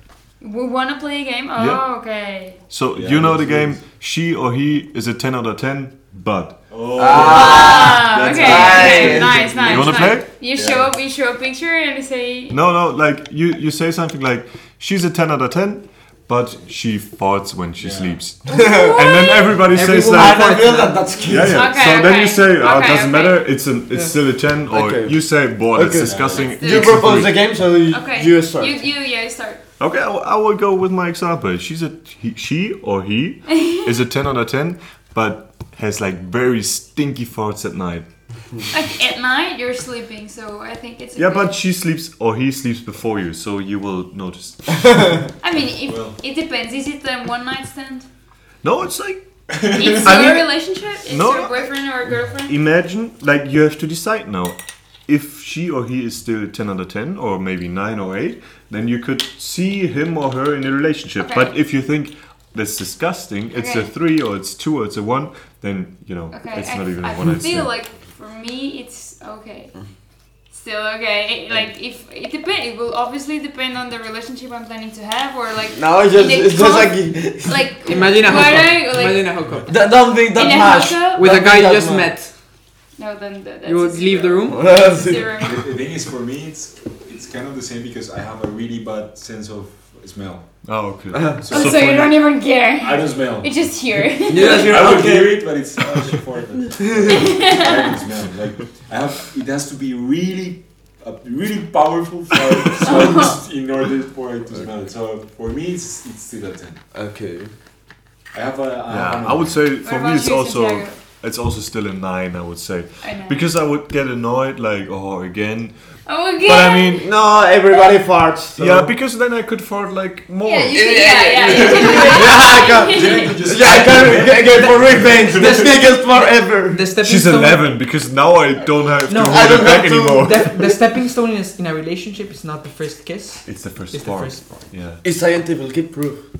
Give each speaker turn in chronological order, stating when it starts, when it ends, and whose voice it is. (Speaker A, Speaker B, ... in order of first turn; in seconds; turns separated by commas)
Speaker A: 0.4-2.6, Speaker B: 1.6-1.9, Speaker B: 2.6-7.3, Speaker C: 2.9-3.9, Speaker C: 6.7-10.9, Speaker D: 6.9-9.6, Speaker A: 7.2-12.6, Speaker B: 9.6-10.4, Speaker B: 12.5-20.7, Speaker C: 17.8-18.2, Speaker A: 18.4-19.5, Speaker D: 18.5-19.1, Speaker E: 19.7-21.1, Speaker D: 20.1-21.7, Speaker B: 21.3-27.4, Speaker A: 21.4-23.4, Speaker D: 24.7-28.8, Speaker C: 25.9-26.6, Speaker A: 26.3-27.0, Speaker A: 27.9-29.6, Speaker B: 29.8-38.1, Speaker A: 38.7-41.5, Speaker B: 41.1-45.2, Speaker A: 45.4-48.1, Speaker C: 45.9-46.2, Speaker B: 48.6-49.4, Speaker C: 49.5-50.3, Speaker A: 49.7-52.5, Speaker B: 50.0-51.7, Speaker B: 52.5-67.8, Speaker A: 61.2-61.5, Speaker A: 63.5-63.9, Speaker A: 66.3-69.9, Speaker A: 70.5-79.3, Speaker D: 75.8-77.7, Speaker E: 77.9-79.7, Speaker C: 79.2-79.6, Speaker D: 79.7-82.1, Speaker A: 80.2-81.2, Speaker E: 81.2-82.3, Speaker A: 83.0-85.6, Speaker E: 83.6-84.8, Speaker D: 84.5-85.5, Speaker C: 85.4-90.6, Speaker B: 90.6-92.2, Speaker D: 91.1-91.4, Speaker C: 91.4-92.0, Speaker A: 91.5-94.7, Speaker C: 92.8-93.7, Speaker D: 94.3-95.6, Speaker C: 94.3-106.8, Speaker D: 96.9-97.3, Speaker A: 97.1-97.9, Speaker A: 102.8-103.3, Speaker D: 106.9-107.5, Speaker C: 108.3-109.6, Speaker B: 108.9-115.8, Speaker A: 109.8-111.0, Speaker A: 113.0-113.4, Speaker A: 116.0-117.0, Speaker B: 116.4-117.1, Speaker D: 117.0-118.9, Speaker B: 118.5-121.3, Speaker A: 120.4-123.4, Speaker D: 120.7-126.9, Speaker C: 121.4-125.8, Speaker E: 125.3-126.1, Speaker E: 126.7-127.8, Speaker B: 127.0-130.7, Speaker E: 129.1-134.6, Speaker D: 129.2-130.5, Speaker B: 133.4-135.0, Speaker D: 135.0-136.2